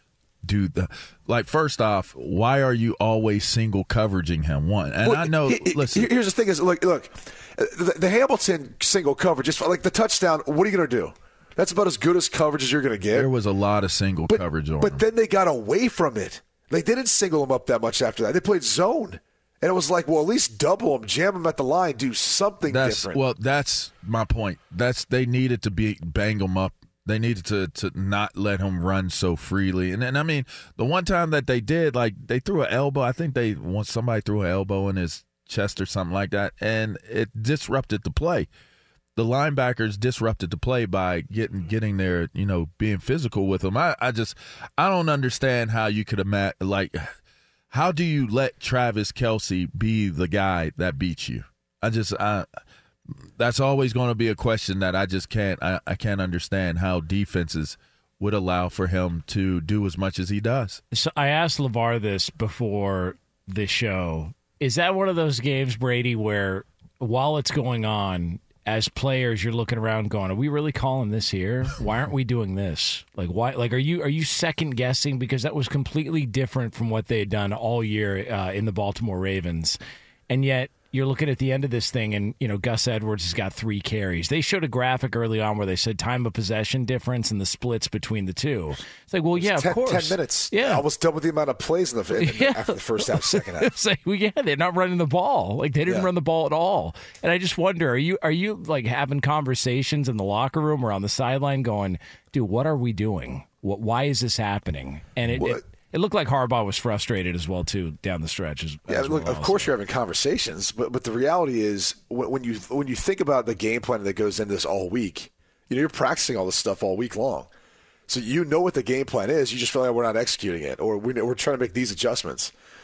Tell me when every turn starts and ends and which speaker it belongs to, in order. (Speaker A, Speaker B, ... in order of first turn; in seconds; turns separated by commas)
Speaker A: 0.4-6.1, Speaker B: 5.0-13.3, Speaker A: 13.1-15.0, Speaker B: 14.3-23.2, Speaker A: 22.7-38.5, Speaker A: 39.2-47.1, Speaker A: 47.7-52.5, Speaker A: 53.4-60.8, Speaker C: 60.9-79.8, Speaker C: 80.3-90.8, Speaker B: 89.4-93.7, Speaker C: 92.2-109.8, Speaker B: 105.3-105.6, Speaker B: 108.9-117.5, Speaker B: 118.1-122.5